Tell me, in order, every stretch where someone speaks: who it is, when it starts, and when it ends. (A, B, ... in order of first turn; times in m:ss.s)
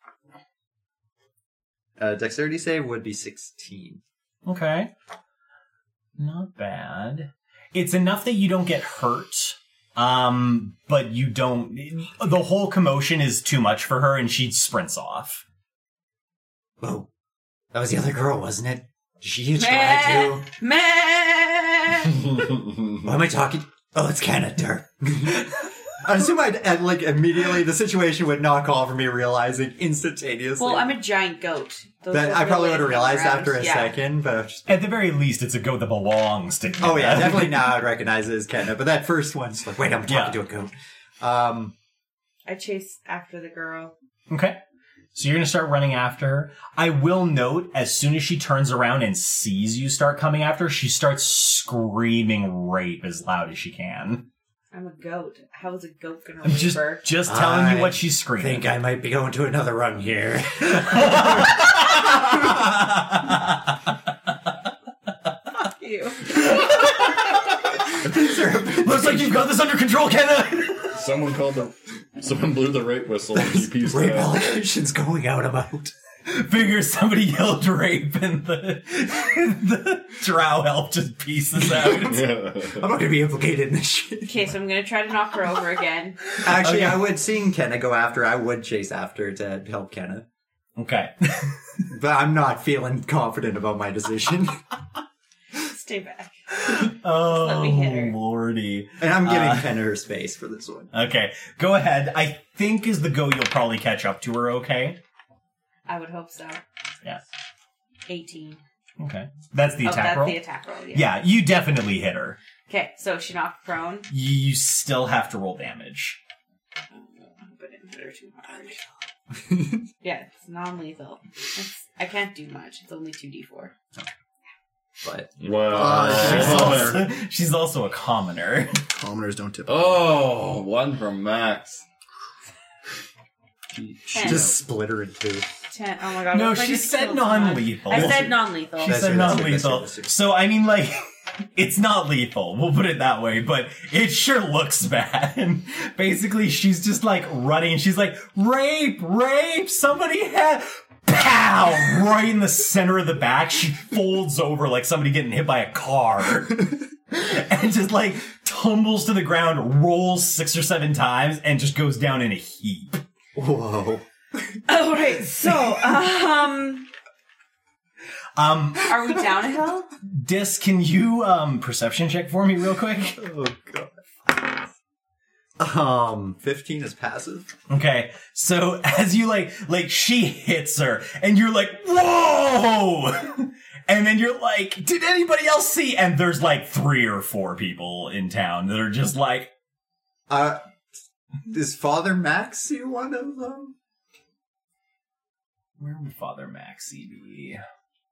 0:02.0-0:04.0 A
0:04.4-0:04.9 B
0:06.2-0:15.4 B
0:16.8-0:17.1 A
0:17.7-0:20.5 A
0:19.6-0:22.5 C
0:22.9-0:30.9 A
0:30.6-0:34.0 C
0:32.1-0:34.7 A
0:34.7-0:37.6 B
0:36.8-0:41.7 A
0:40.1-0:40.4 B
0:42.4-0:43.9 C
0:44.3-0:44.6 B
0:45.1-0:54.3 B
0:54.7-0:57.0 C
0:56.4-0:58.7 B
0:57.3-1:01.8 A
1:00.8-1:03.7 B
1:05.6-1:06.7 C
1:08.0-1:09.4 A
1:08.8-1:11.0 B
1:10.9-1:14.5 D
1:13.7-1:15.9 A
1:16.2-1:22.3 B
1:21.8-1:24.4 A
1:22.0-1:22.8 D
1:24.2-1:26.2 C
1:26.4-1:30.2 A
1:26.4-1:27.0 B
1:30.8-1:31.7 B
1:31.9-1:34.6 A
1:35.6-1:36.3 C
1:36.5-1:39.7 B
1:37.2-1:38.2 C
1:39.0-1:40.9 A
1:40.9-1:45.0 B
1:45.9-1:46.6 C
1:48.1-1:48.6 C
1:49.0-1:50.4 B
1:49.8-1:51.1 C
1:50.9-1:52.4 B
1:52.7-1:54.1 C
1:54.1-1:56.2 B
1:56.9-1:58.8 C
1:59.4-1:59.8 A
2:00.0-2:03.7 C
2:05.0-2:06.9 A
2:05.4-2:07.0 D
2:05.7-2:07.0 E
2:06.2-2:08.8 B
2:08.9-2:10.0 E
2:09.7-2:11.8 D
2:13.8-2:14.5 B
2:14.1-2:14.5 C
2:14.2-2:15.5 A
2:15.7-2:19.3 C
2:16.3-2:21.0 B
2:17.9-2:18.3 A
2:18.8-2:20.1 A
2:21.5-2:43.0 B
2:43.3-2:44.0 A
2:44.7-2:46.9 C
2:48.4-2:49.0 B
2:48.8-2:49.9 C
2:50.0-2:53.2 B
2:53.2-2:54.6 A
2:55.6-2:57.5 A
2:57.7-3:09.5 B
3:10.3-3:10.6 A
3:11.5-3:13.7 A
3:15.8-3:17.6 B